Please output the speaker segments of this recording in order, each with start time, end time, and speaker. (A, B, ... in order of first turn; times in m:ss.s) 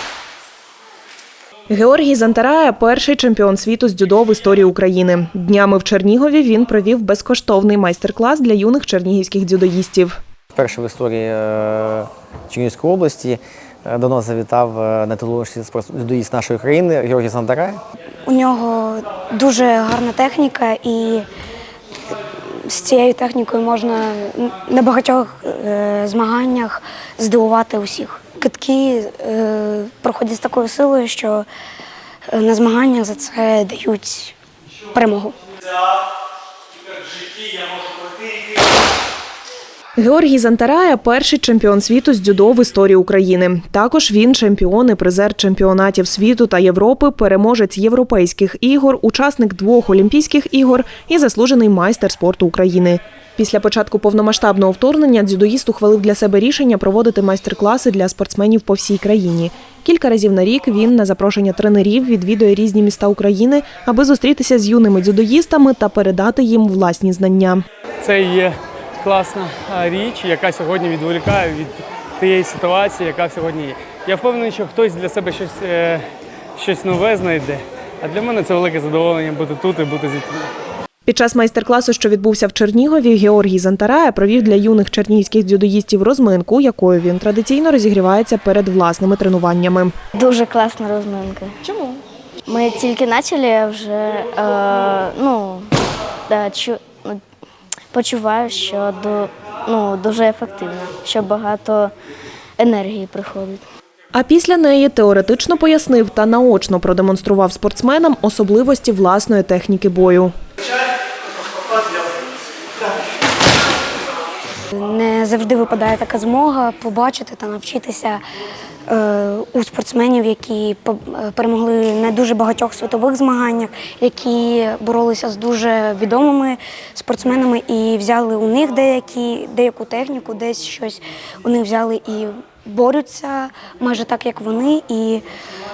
0:01.7-0:10.2 A
0:10.5-0:17.8 B
0:18.2-0:21.2 C
0:22.4-0:31.4 C
0:32.3-0:34.3 C
0:34.9-0:35.4 C
0:40.0-1:07.6 A
1:08.0-1:16.0 D
1:16.6-1:20.5 D
1:21.0-1:29.9 A
1:30.2-1:31.9 E
1:32.5-1:35.7 E
1:36.3-1:37.2 E
1:37.9-1:41.9 E
1:42.6-1:43.6 E
1:44.1-1:50.3 A
1:54.7-1:58.2 C
1:58.9-2:15.2 C